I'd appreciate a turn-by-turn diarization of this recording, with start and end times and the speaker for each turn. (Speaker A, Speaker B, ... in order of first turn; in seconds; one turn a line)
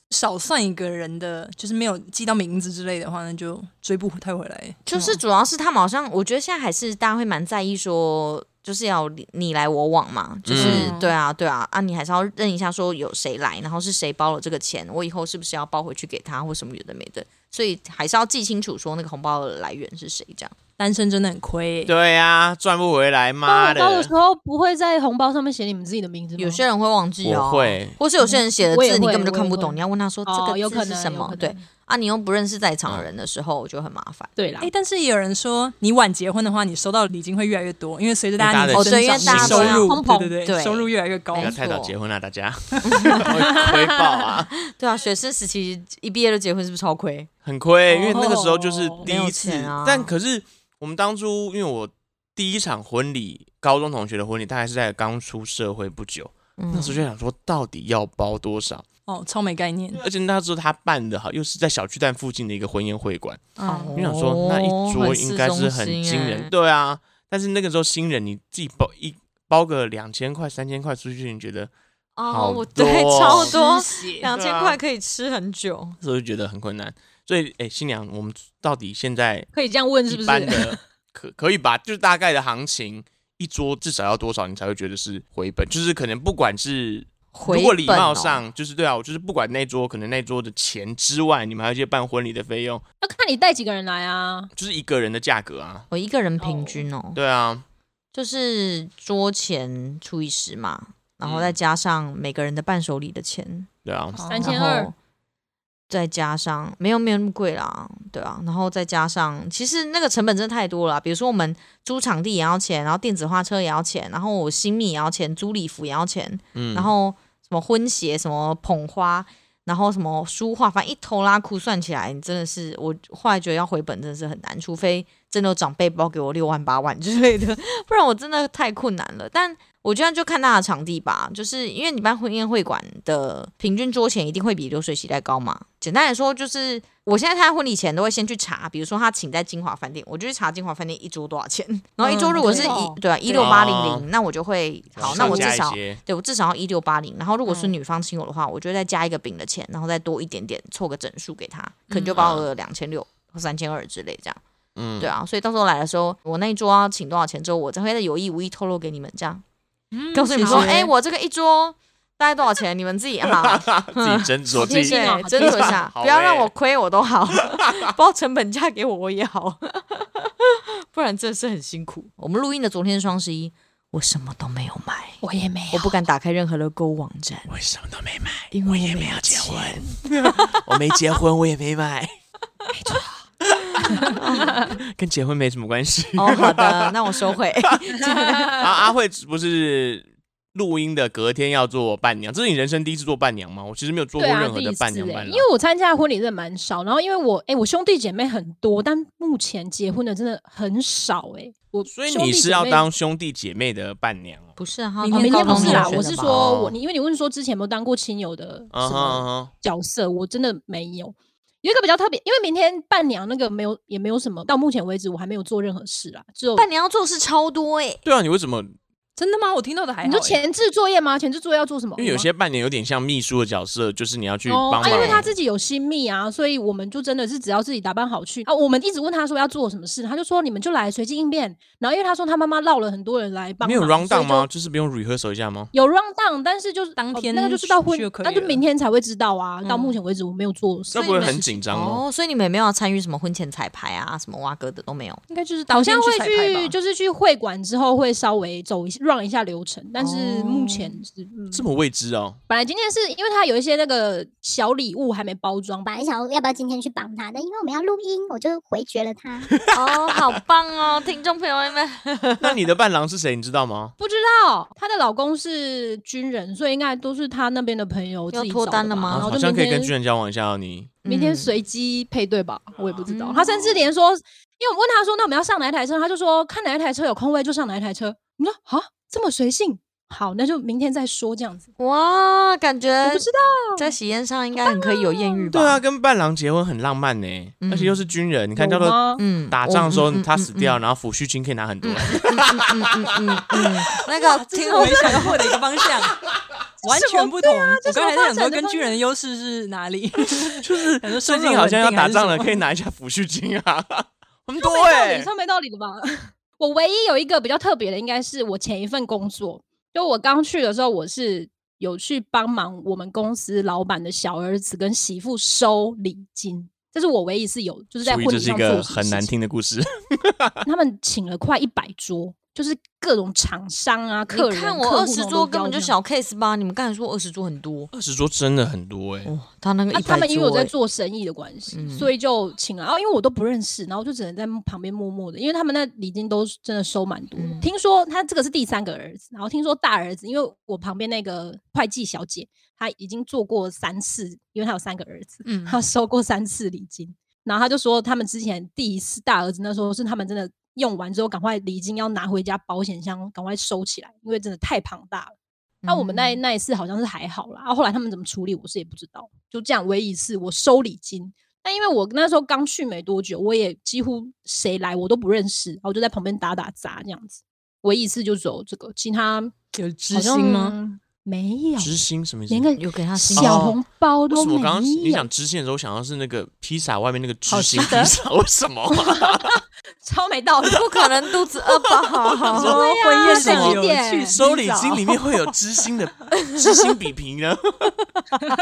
Speaker A: 0.1-5.2
Speaker B: 4.8-20.5
Speaker C: 10.4-10.9
Speaker A: 10.6-11.1
Speaker A: 20.8-21.9
Speaker C: 21.9-24.1
Speaker D: 23.4-26.6
Speaker B: 26.4-34.3
Speaker C: 27.2-28.0
Speaker D: 28.2-31.6
Speaker D: 34.4-34.7
Speaker A: 34.6-41.6
Speaker C: 38.4-39.9
Speaker B: 38.7-41.9
Speaker D: 39.7-40.3
Speaker C: 41.3-44.5
Speaker B: 42.8-43.4
Speaker D: 43.6-43.8
Speaker B: 44.6-47.3
Speaker C: 47.4-58.9
Speaker D: 47.9-49.1
Speaker B: 49.0-50.1
Speaker B: 56.6-57.0
Speaker A: 59.1-60.0
Speaker C: 59.9-63.4
Speaker A: 63.6-64.0
Speaker B: 63.6-66.5
Speaker C: 63.9-71.7
Speaker B: 72.2-76.0
Speaker C: 72.3-73.6
Speaker A: 73.2-74.3
Speaker C: 74.3-74.8
Speaker C: 76.0-79.5
Speaker D: 79.5-80.8
Speaker C: 80.1-92.8
Speaker B: 87.3-88.4
Speaker D: 93.0-94.5
Speaker C: 94.5-95.9
Speaker B: 95.9-97.2
Speaker D: 96.4-96.8
Speaker C: 97.1-97.6
Speaker B: 98.1-103.7
Speaker C: 101.2-101.6
Speaker C: 103.8-104.2
Speaker A: 104.1-104.6
Speaker D: 104.3-104.9
Speaker B: 104.4-104.9
Speaker B: 105.9-154.4
Speaker C: 116.5-116.9
Speaker D: 142.0-143.5
Speaker A: 142.0-142.8
Speaker C: 143.3-144.1
Speaker C: 145.0-146.0
Speaker D: 145.1-145.4
Speaker D: 147.4-147.7
Speaker A: 151.9-152.2
Speaker C: 152.2-152.5
Speaker C: 154.7-155.1
Speaker B: 155.0-159.4
Speaker A: 159.9-160.9
Speaker B: 160.1-177.5
Speaker D: 160.3-160.8
Speaker C: 163.3-166.5
Speaker D: 164.5-165.8
Speaker C: 167.5-167.8
Speaker D: 175.2-176.0
Speaker C: 177.5-182.1
Speaker B: 178.5-180.5
Speaker D: 182.7-183.2
Speaker C: 183.5-187.7
Speaker D: 183.8-184.7
Speaker B: 184.0-184.7
Speaker B: 186.1-188.7
Speaker C: 188.6-195.4
Speaker D: 194.2-202.9
Speaker C: 201.9-204.6
Speaker B: 204.6-206.3
Speaker A: 205.0-206.0
Speaker D: 205.1-216.7
Speaker C: 206.2-206.8
Speaker C: 208.7-209.5
Speaker B: 216.6-218.0
Speaker C: 218.0-218.8
Speaker A: 219.2-220.4
Speaker D: 220.0-222.3
Speaker C: 222.0-225.3
Speaker D: 224.4-234.5
Speaker B: 224.8-225.3
Speaker C: 233.6-235.7
Speaker D: 235.7-241.6
Speaker A: 237.0-238.6
Speaker B: 239.6-240.0
Speaker C: 240.9-242.0
Speaker B: 241.7-245.2
Speaker A: 245.3-246.7
Speaker D: 245.7-251.7
Speaker B: 250.0-251.0
Speaker C: 251.5-252.4
Speaker D: 252.5-255.9
Speaker E: 255.8-259.5
Speaker C: 259.7-260.1
Speaker B: 259.7-262.6
Speaker C: 262.4-263.9
Speaker D: 264.0-269.9
Speaker B: 268.3-269.3
Speaker C: 269.1-270.9
Speaker B: 271.0-271.5
Speaker D: 271.1-281.7
Speaker B: 273.1-273.6
Speaker B: 281.8-285.8
Speaker D: 283.0-283.9
Speaker D: 284.6-285.4
Speaker C: 285.5-289.0
Speaker B: 287.6-288.0
Speaker D: 288.6-289.2
Speaker B: 289.2-290.8
Speaker C: 289.5-293.2
Speaker B: 291.8-295.6
Speaker A: 294.1-296.2
Speaker D: 294.7-295.1
Speaker A: 296.8-302.6
Speaker D: 296.8-299.0
Speaker C: 300.5-305.3
Speaker D: 304.6-319.3
Speaker C: 318.0-320.6
Speaker D: 320.6-325.9
Speaker B: 324.3-327.9
Speaker C: 327.9-329.3
Speaker B: 329.2-330.7
Speaker D: 329.9-355.3
Speaker B: 331.7-332.1
Speaker B: 337.3-337.7
Speaker A: 345.4-345.8
Speaker B: 355.8-356.4
Speaker D: 355.9-372.0
Speaker A: 369.7-370.8
Speaker C: 371.8-372.7
Speaker D: 372.5-375.3
Speaker B: 372.8-373.7
Speaker C: 373.3-379.6
Speaker A: 377.5-378.1
Speaker D: 377.8-378.1
Speaker D: 378.9-381.2
Speaker B: 380.7-382.7
Speaker D: 381.8-384.4
Speaker A: 382.5-385.5
Speaker C: 382.6-387.9